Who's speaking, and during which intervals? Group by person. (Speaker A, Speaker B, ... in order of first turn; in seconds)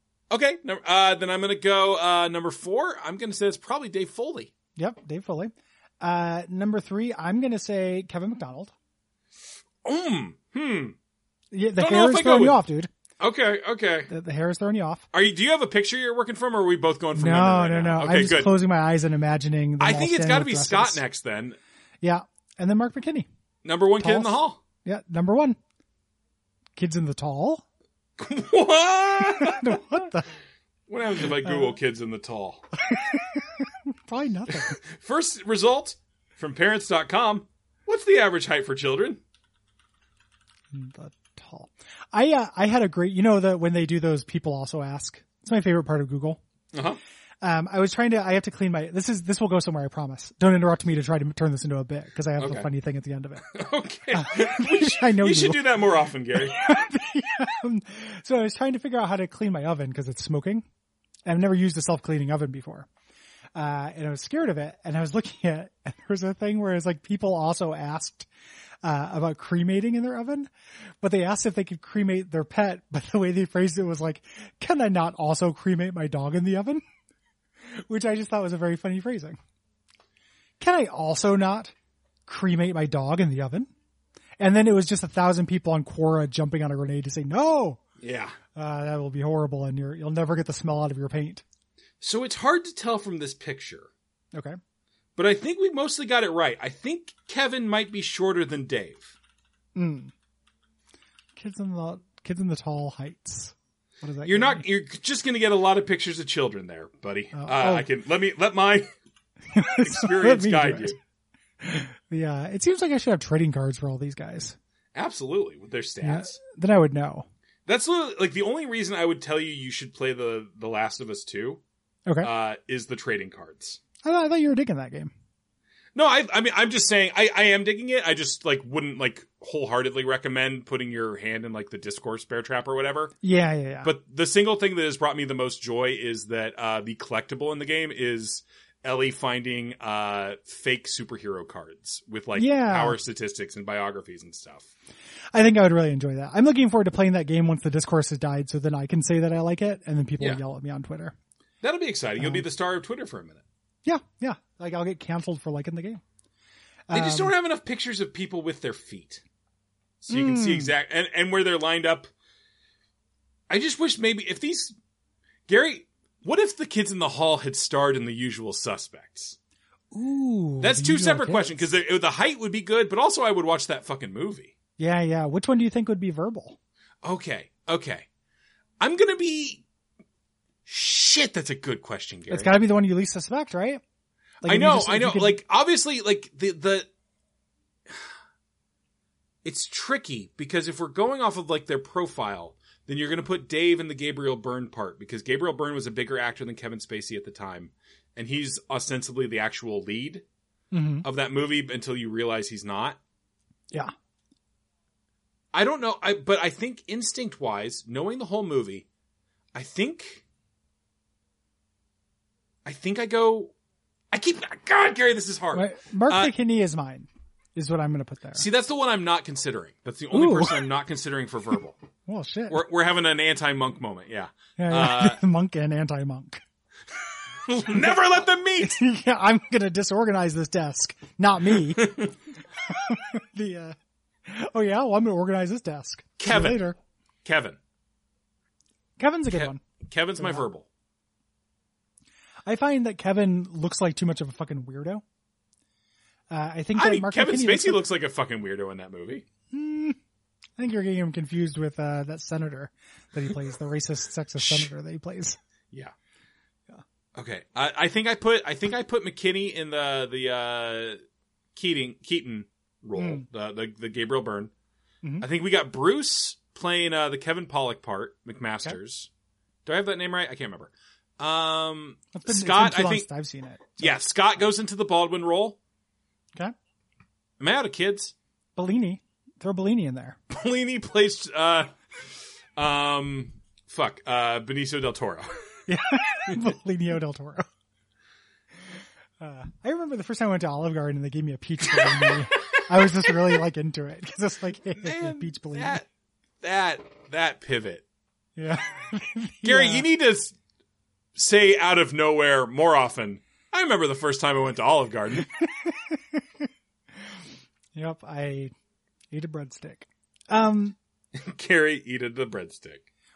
Speaker A: 0.3-4.5, 9.8-11.0, 11.8-12.6, 13.2-14.1, 15.1-18.5, 19.8-21.6, 23.6-24.6, 28.2-29.8, 30.9-32.6, 34.5-39.2, 46.7-47.0, 52.4-52.7, 53.5-56.6, 88.0-88.4, 92.0-93.9, 95.2-99.2, 104.2-108.9, 109.7-111.0, 114.9-116.4, 117.7-121.6, 122.2-123.8, 125.9-133.1, 133.8-144.7, 151.6-153.4, 156.9-159.2, 160.0-162.1, 163.5-164.8, 165.5-169.4, 170.6-174.5, 177.0-178.1, 178.8-179.6, 180.7-182.5, 184.4-186.9, 189.4-200.2, 201.0-203.0, 205.5-208.9, 209.5-210.2, 212.6-213.5, 214.1-216.3, 218.3-221.8, 222.5-225.2, 227.5-228.8, 231.8-232.1, 236.2-236.6, 237.2-237.6, 239.3-240.7, 246.8-249.2, 254.4-254.7, 257.1-261.0, 261.5-264.5, 265.2-269.1, 269.6-273.1, 273.8-275.6, 277.4-278.1, 280.3-281.7, 282.6-285.5, 291.7-293.4, 294.8-295.9, 296.4-297.8, 299.4-300.4, 301.1-305.3, 311.1-312.9
Speaker B: 4.8-8.7, 11.5-12.9, 14.1-15.0, 17.1-21.0, 22.0-23.3, 24.0-25.6, 26.8-27.6, 29.3-30.3, 31.4-31.8, 32.8-34.8, 40.7-46.4, 47.4-53.5, 54.1-55.8, 56.3-60.6, 61.2-62.9, 63.5-68.3, 68.8-70.5, 71.0-76.8, 77.9-79.4, 80.6-81.7, 82.3-83.7, 84.4-87.8, 88.5-91.4, 99.8-100.1, 101.4-104.6, 107.3-107.9, 109.5-111.0, 111.6-114.5, 116.0-117.2, 124.0-125.1, 133.2-133.9, 142.4-143.0, 145.3-151.1, 152.2-152.4, 153.8-156.0, 156.9-157.3, 160.1-160.7, 169.9-171.7, 174.8-176.6, 182.3-183.8, 184.4-185.4, 200.7-201.0, 215.5-218.5, 220.1-220.6, 222.1-222.6, 224.6-226.4, 228.6-233.8, 234.3-236.8, 239.0-239.6, 240.2-240.5, 242.5-245.0, 246.3-247.8, 249.5-250.0, 250.6-255.4, 263.0-263.2, 272.1-274.0, 278.6-280.2, 285.7-287.5, 289.2-295.8, 298.4-299.9, 305.2-306.2, 307.7-308.5, 309.1-310.8